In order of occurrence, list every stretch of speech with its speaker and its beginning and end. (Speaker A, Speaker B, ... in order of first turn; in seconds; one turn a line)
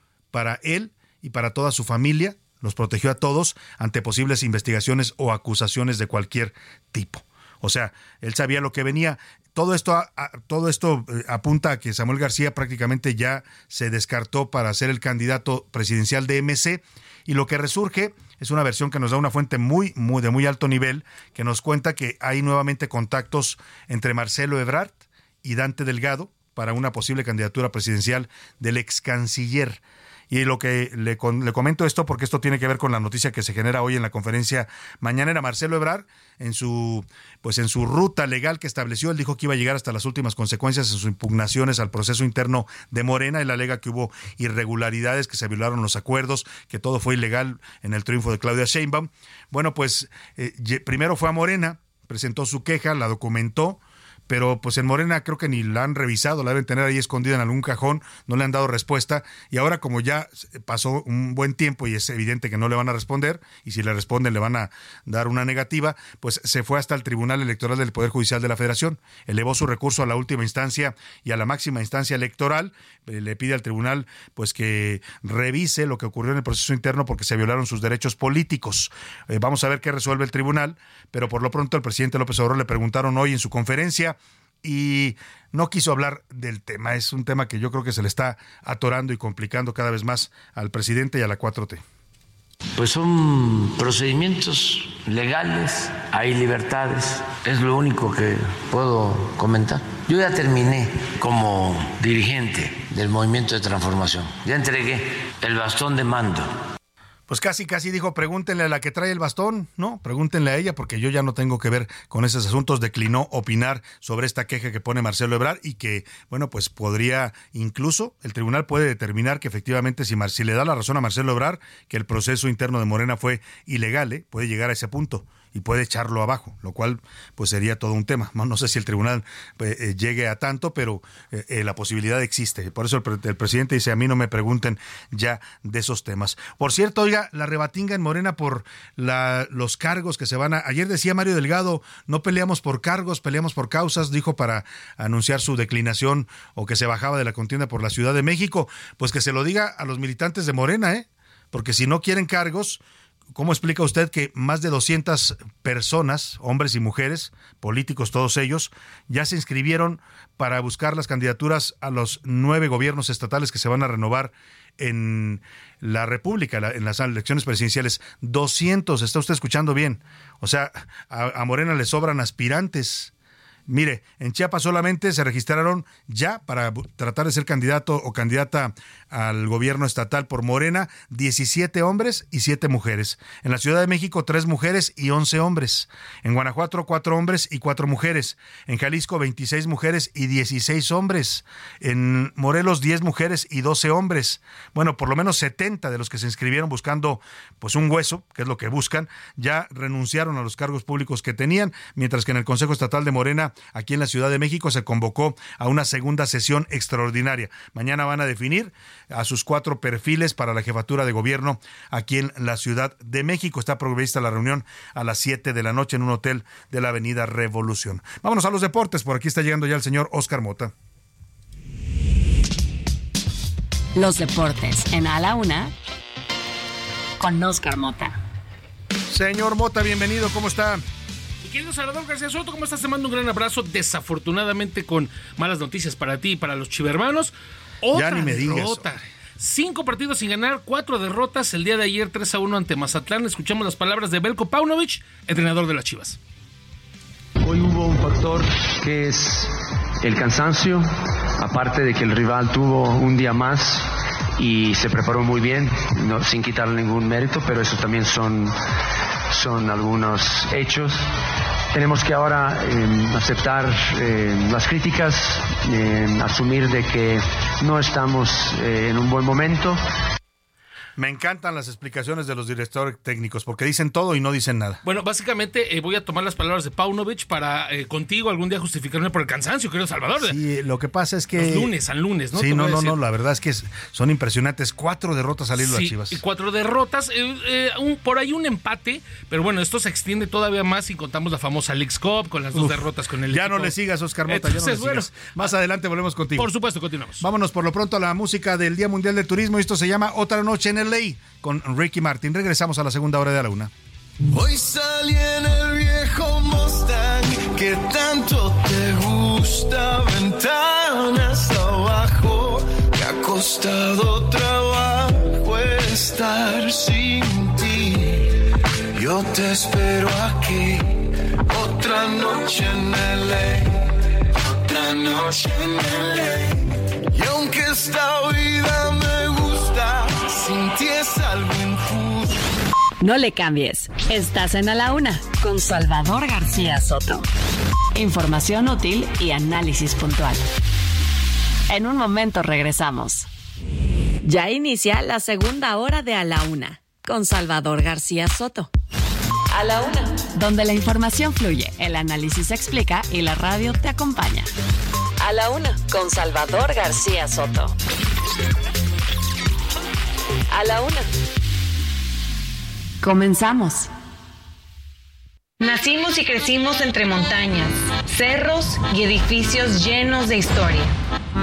Speaker A: 0.3-91.8
Speaker B: 92.8-106.5
Speaker A: 107.3-152.8
Speaker A: 153.3-173.1
Speaker A: 173.7-220.7
Speaker C: 223.9-225.7
Speaker C: 227.2-228.2
Speaker A: 229.1-230.8
Speaker D: 231.4-246.2
Speaker A: 237.9-238.9
Speaker E: 247.4-258.6
Speaker E: 259.3-261.1
Speaker E: 261.7-269.8
Speaker A: 271.0-274.8
Speaker D: 274.8-280.4
Speaker A: 280.2-281.7
Speaker D: 281.3-283.0
Speaker A: 282.3-286.2
Speaker D: 285.6-293.7
Speaker A: 292.5-296.5
Speaker D: 294.3-295.5
Speaker D: 296.4-297.2
Speaker A: 297.2-303.7
Speaker F: 304.3-318.4
Speaker F: 318.9-323.9
Speaker F: 324.4-332.4
Speaker C: 333.0-337.2
Speaker C: 337.9-340.4
Speaker C: 341.7-343.3
Speaker C: 344.2-348.7
Speaker C: 349.5-354.5
Speaker C: 355.2-357.7
Speaker C: 360.5-361.1
Speaker C: 363.0-363.9
Speaker G: 365.6-370.9